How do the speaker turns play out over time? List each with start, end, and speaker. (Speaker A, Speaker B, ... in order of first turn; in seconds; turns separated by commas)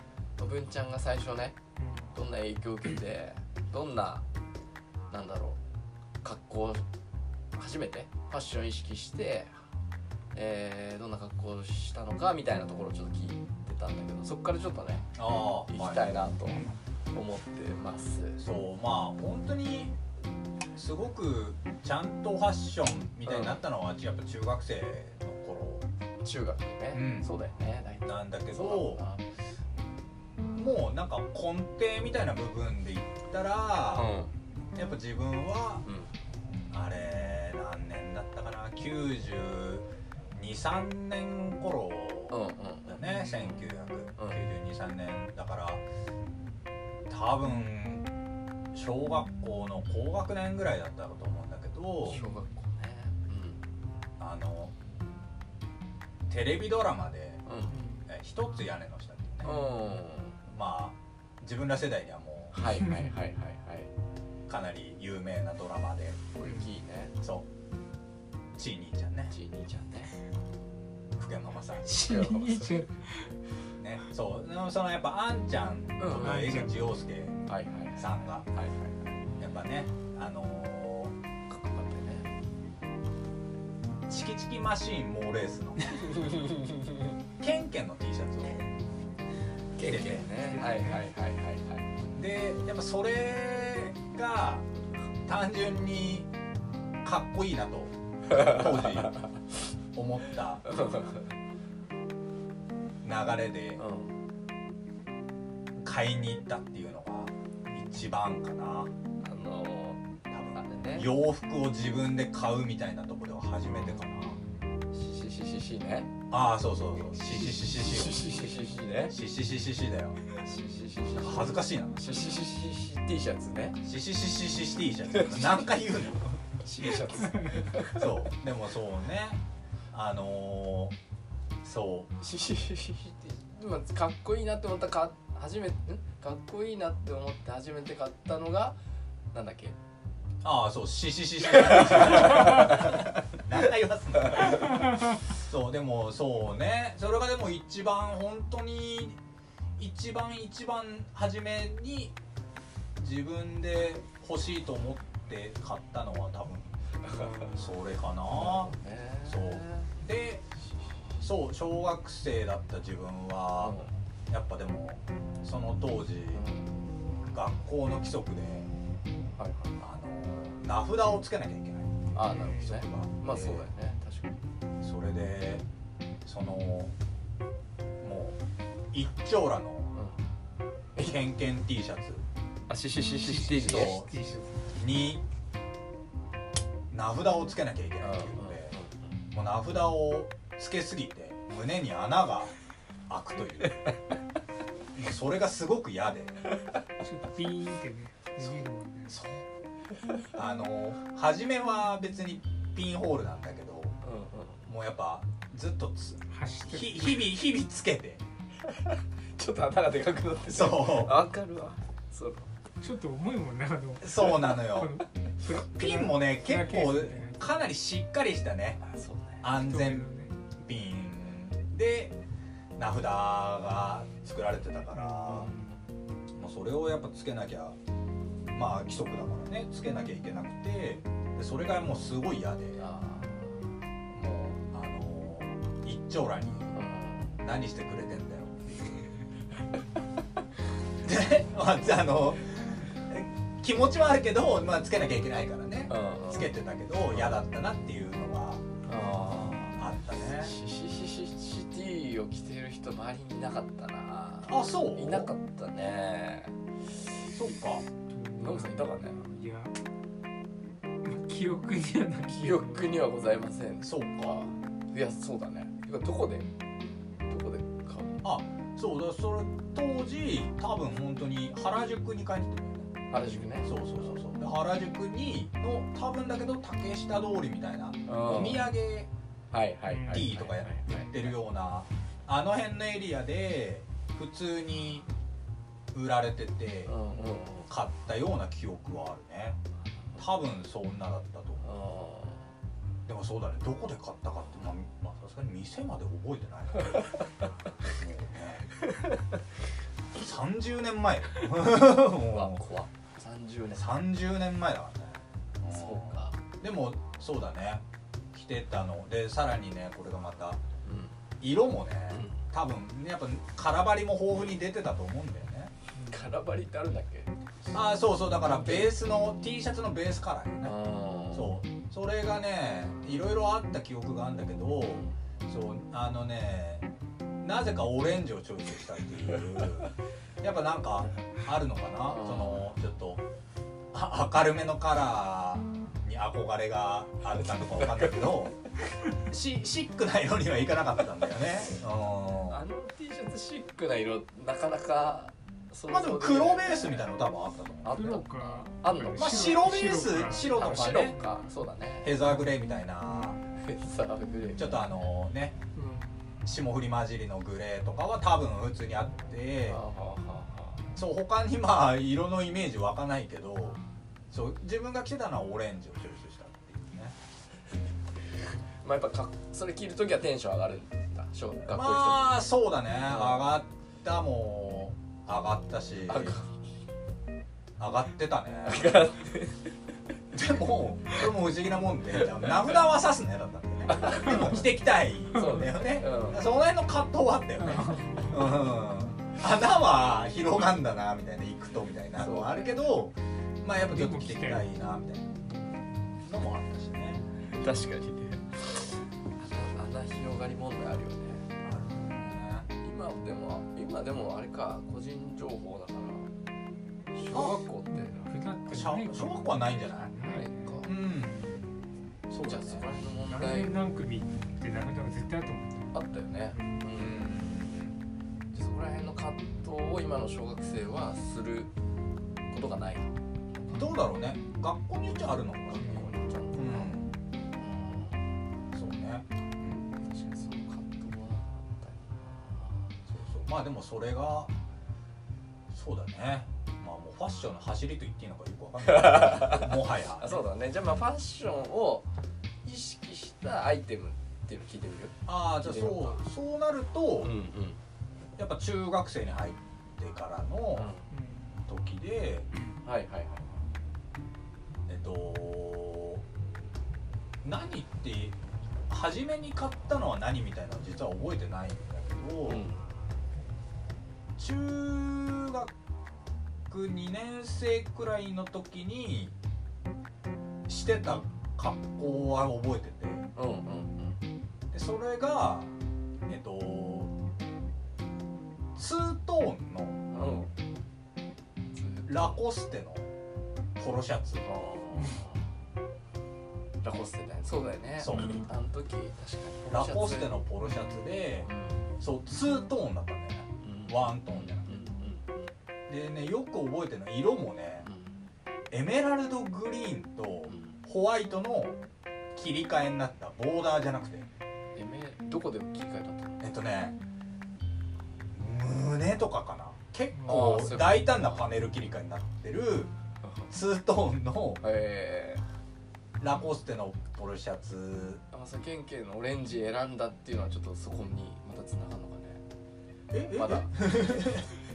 Speaker A: 0.4-1.6, Speaker B: 1.8-2.1, Speaker A: 2.1-4.2, Speaker A: 5.1-5.6, Speaker A: 6.2-6.8, Speaker A: 7.5-9.5, Speaker A: 10.3-15.1, Speaker C: 15.1-16.1, Speaker A: 15.7-18.4, Speaker B: 16.5-16.7, Speaker C: 18.4-19.9, Speaker C: 20.8-25.9, Speaker A: 23.2-23.6, Speaker A: 26.2-29.3, Speaker C: 26.9-27.3, Speaker C: 28.0-29.0, Speaker C: 30.5-34.1, Speaker A: 33.9-34.3, Speaker C: 34.7-35.8, Speaker A: 35.8-36.1, Speaker C: 36.7-42.4, Speaker A: 42.3-43.6, Speaker C: 42.9-45.8, Speaker A: 44.2-44.5, Speaker C: 47.1-48.1, Speaker C: 48.7-52.2, Speaker A: 52.0-53.6, Speaker B: 52.1-52.4, Speaker C: 54.2-54.7, Speaker C: 56.3-57.4, Speaker A: 57.5-57.8, Speaker B: 57.7-58.0, Speaker C: 58.1-59.6, Speaker A: 59.4-60.4, Speaker C: 60.5-62.7, Speaker A: 62.5-63.9, Speaker B: 62.8-63.1, Speaker C: 64.5-66.2, Speaker A: 66.3-67.2, Speaker B: 66.4-66.7, Speaker C: 67.2-67.5, Speaker C: 68.5-69.3, Speaker A: 69.3-70.1, Speaker C: 71.2-72.1, Speaker B: 71.8-73.3, Speaker A: 71.9-72.9, Speaker C: 73.8-77.4, Speaker A: 76.0-76.5, Speaker B: 76.1-76.8, Speaker A: 77.5-79.2, Speaker C: 78.0-78.5, Speaker C: 79.4-81.1, Speaker A: 81.5-82.3, Speaker C: 84.1-86.2, Speaker A: 86.1-87.1, Speaker C: 87.4-88.7, Speaker A: 89.8-91.9, Speaker C: 89.8-90.2, Speaker B: 90.3-91.0, Speaker C: 92.1-94.7, Speaker C: 95.2-96.3, Speaker C: 97.0-99.2, Speaker A: 98.3-98.6, Speaker C: 99.9-100.6, Speaker A: 100.6-101.3, Speaker C: 103.0-103.8, Speaker A: 103.8-104.2, Speaker C: 105.8-108.9, Speaker A: 109.2-110.0, Speaker C: 110.3-114.4, Speaker A: 110.5-111.1, Speaker A: 114.9-116.1, Speaker C: 116.3-118.5, Speaker A: 117.2-119.2, Speaker C: 119.1-120.2, Speaker A: 120.3-123.8, Speaker C: 121.2-122.0, Speaker C: 123.8-130.9, Speaker A: 125.1-125.7, Speaker A: 126.6-128.1, Speaker C: 131.6-132.1, Speaker A: 132.2-138.8, Speaker A: 139.3-139.8, Speaker C: 140.4-149.2, Speaker A: 141.7-143.0, Speaker C: 149.8-152.2, Speaker C: 153.0-156.7, Speaker A: 157.0-157.5, Speaker C: 157.3-158.7, Speaker A: 158.3-159.9, Speaker C: 159.2-160.4, Speaker A: 160.7-161.2, Speaker C: 161.2-163.8, Speaker A: 163.6-163.9, Speaker C: 164.3-166.4, Speaker A: 166.3-166.8, Speaker C: 167.3-168.7, Speaker A: 169.3-169.8, Speaker C: 169.8-173.7, Speaker A: 172.1-174.4, Speaker B: 172.2-172.8, Speaker C: 174.8-175.6, Speaker C: 176.2-176.9, Speaker C: 178.0-178.4, Speaker C: 178.9-179.9, Speaker A: 179.9-180.2, Speaker C: 181.0-182.2, Speaker A: 182.7-184.0, Speaker B: 183.2-184.7, Speaker C: 183.6-185.2, Speaker C: 186.9-188.8, Speaker A: 188.0-189.2, Speaker C: 189.3-192.5, Speaker C: 193.1-193.9, Speaker C: 194.9-196.4, Speaker B: 197.0-199.2, Speaker C: 199.1-199.4, Speaker C: 200.3-204.0, Speaker A: 204.0-204.7, Speaker C: 204.7-208.2, Speaker B: 206.3-207.3, Speaker A: 208.7-212.5, Speaker C: 210.5-211.2, Speaker B: 212.8-217.5, Speaker C: 214.0-218.8, Speaker A: 218.8-219.4, Speaker C: 219.4-220.1, Speaker B: 219.5-220.3, Speaker C: 220.6-222.2, Speaker C: 222.8-225.5, Speaker B: 224.9-225.7, Speaker C: 226.3-227.8, Speaker C: 228.5-232.8, Speaker A: 232.8-233.7, Speaker C: 234.1-236.7, Speaker A: 236.7-237.4, Speaker C: 237.4-239.0, Speaker C: 241.0-248.6, Speaker A: 245.9-246.5, Speaker A: 247.1-247.4, Speaker A: 248.8-249.8, Speaker C: 249.3-250.5, Speaker A: 250.3-256.6, Speaker C: 254.5-255.3, Speaker C: 257.3-257.9, Speaker B: 258.1-259.7, Speaker A: 258.4-259.2, Speaker B: 261.0-263.0, Speaker A: 262.3-266.5, Speaker C: 263.8-264.4, Speaker A: 267.3-268.2, Speaker C: 268.2-273.0, Speaker A: 273.1-273.8, Speaker C: 273.6-279.1, Speaker A: 278.1-278.7, Speaker A: 279.5-281.3, Speaker B: 279.9-280.3, Speaker C: 280.1-285.1, Speaker C: 285.9-286.9, Speaker A: 286.9-287.7, Speaker C: 287.7-289.6, Speaker C: 290.2-291.7, Speaker A: 291.6-292.5, Speaker C: 293.1-297.1, Speaker C: 297.8-298.7, Speaker C: 300.1-302.6, Speaker A: 302.2-303.9, Speaker C: 303.7-310.6, Speaker A: 305.7-306.4, Speaker A: 310.8-311.2, Speaker C: 311.4-315.7, Speaker A: 312.1-312.4, Speaker B: 315.9-316.2, Speaker A: 316.1-317.3, Speaker C: 317.7-320.8, Speaker A: 318.4-318.9, Speaker A: 320.6-321.6, Speaker C: 321.3-326.9, Speaker C: 327.4-333.2, Speaker A: 332.1-332.6, Speaker C: 333.9-338.6, Speaker A: 337.3-338.5, Speaker C: 339.1-342.6, Speaker A: 342.5-346.9, Speaker C: 345.9-348.0, Speaker A: 347.8-349.6, Speaker B: 347.9-351.1, Speaker C: 349.1-351.1, Speaker A: 350.3-352.2, Speaker C: 352.0-353.4, Speaker A: 353.5-354.9, Speaker C: 354.6-355.6, Speaker B: 355.7-356.2, Speaker C: 356.4-359.8, Speaker A: 359.7-360.9, Speaker C: 360.9-367.1, Speaker A: 368.8-372.4, Speaker C: 371.6-376.4, Speaker A: 373.1-373.4, Speaker A: 376.1-376.5, Speaker C: 377.8-379.0, Speaker A: 378.6-379.7, Speaker C: 380.3-395.3, Speaker A: 383.9-384.6, Speaker A: 385.3-386.5, Speaker B: 385.4-385.7, Speaker B: 387.6-388.6, Speaker A: 392.2-392.7, Speaker B: 393.8-394.7, Speaker C: 396.2-397.2, Speaker A: 397.4-401.5, Speaker C: 401.6-402.7, Speaker A: 402.8-406.3, Speaker A: 407.1-408.3, Speaker C: 407.3-407.6, Speaker B: 407.9-411.6, Speaker C: 408.6-410.1, Speaker A: 410.2-410.9, Speaker C: 410.8-411.4, Speaker C: 412.3-412.8, Speaker A: 412.4-413.7, Speaker B: 413.2-415.9, Speaker A: 415.9-417.4, Speaker B: 416.5-416.8, Speaker C: 416.9-418.0, Speaker A: 418.5-421.7, Speaker A: 422.5-423.9, Speaker C: 423.7-427.1, Speaker A: 425.7-427.0, Speaker B: 425.8-426.1, Speaker A: 427.5-428.3, Speaker C: 428.7-429.9, Speaker A: 429.9-432.9, Speaker C: 433.1-434.5, Speaker C: 435.7-440.4, Speaker A: 438.8-442.1, Speaker A: 442.6-446.2, Speaker C: 445.2-447.3, Speaker A: 447.2-447.8, Speaker C: 448.4-450.9, Speaker A: 450.7-451.1, Speaker B: 451.1-451.6, Speaker C: 451.6-452.5, Speaker A: 452.8-453.6, Speaker C: 454.9-456.2, Speaker C: 457.4-458.4, Speaker C: 458.9-462.6, Speaker A: 462.4-462.9, Speaker C: 464.4-465.7, Speaker C: 466.7-469.3, Speaker C: 470.7-473.3, Speaker A: 473.3-474.2, Speaker C: 474.7-475.7, Speaker C: 476.2-477.1, Speaker C: 478.7-480.0, Speaker A: 480.1-480.5, Speaker A: 481.7-482.4, Speaker C: 482.1-483.1, Speaker C: 483.8-485.2, Speaker A: 484.9-485.4, Speaker A: 486.8-490.5, Speaker C: 488.0-488.4, Speaker C: 489.6-494.7, Speaker A: 491.4-491.9, Speaker A: 493.6-495.5, Speaker C: 495.9-497.9, Speaker A: 497.8-498.2, Speaker C: 498.7-501.8, Speaker A: 500.5-500.8, Speaker C: 502.3-504.3, Speaker A: 504.7-506.4, Speaker C: 506.4-507.0, Speaker C: 508.3-512.9, Speaker B: 510.1-510.5, Speaker A: 510.2-511.5, Speaker A: 513.2-513.5, Speaker C: 513.5-514.6, Speaker A: 514.6-515.4, Speaker C: 516.2-518.2, Speaker A: 518.3-522.4, Speaker C: 523.1-524.5, Speaker A: 523.3-524.4